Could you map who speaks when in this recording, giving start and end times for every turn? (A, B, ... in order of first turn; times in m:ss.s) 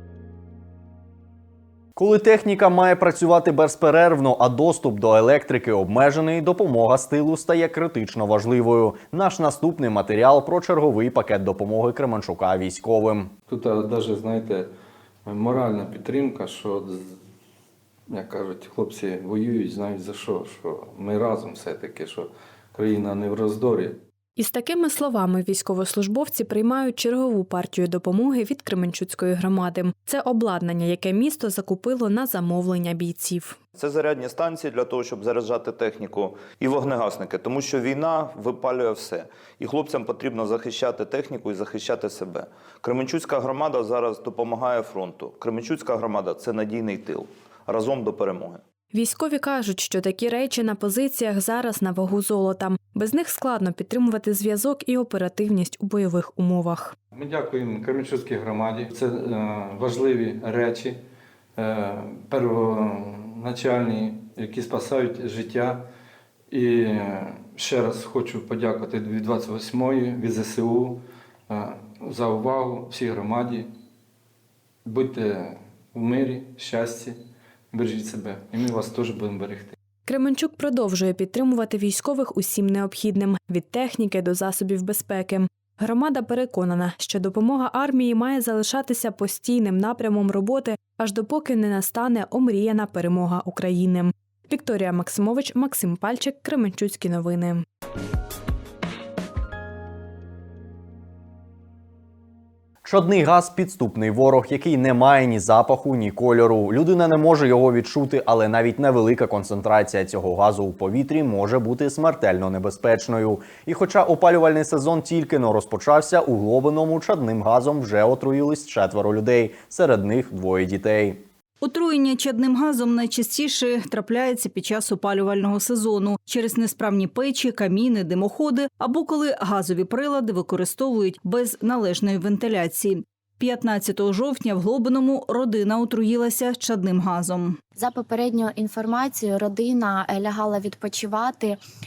0:02.0-0:13.3 A
0:13.5-0:14.7 B
0:15.2-0:17.2 B
0:18.1-0:24.0 B
0:24.4-0:33.6 C
0:33.8-0:48.6 D
0:48.9-0:57.0 C
0:57.1-1:01.0 B
1:01.6-1:05.9 B
1:06.5-1:13.7 B
1:14.8-1:17.2 B
1:17.7-1:19.8 B
1:20.1-1:37.6 C
1:42.8-2:01.2 A
2:01.6-2:17.6 E
2:17.8-2:21.6 F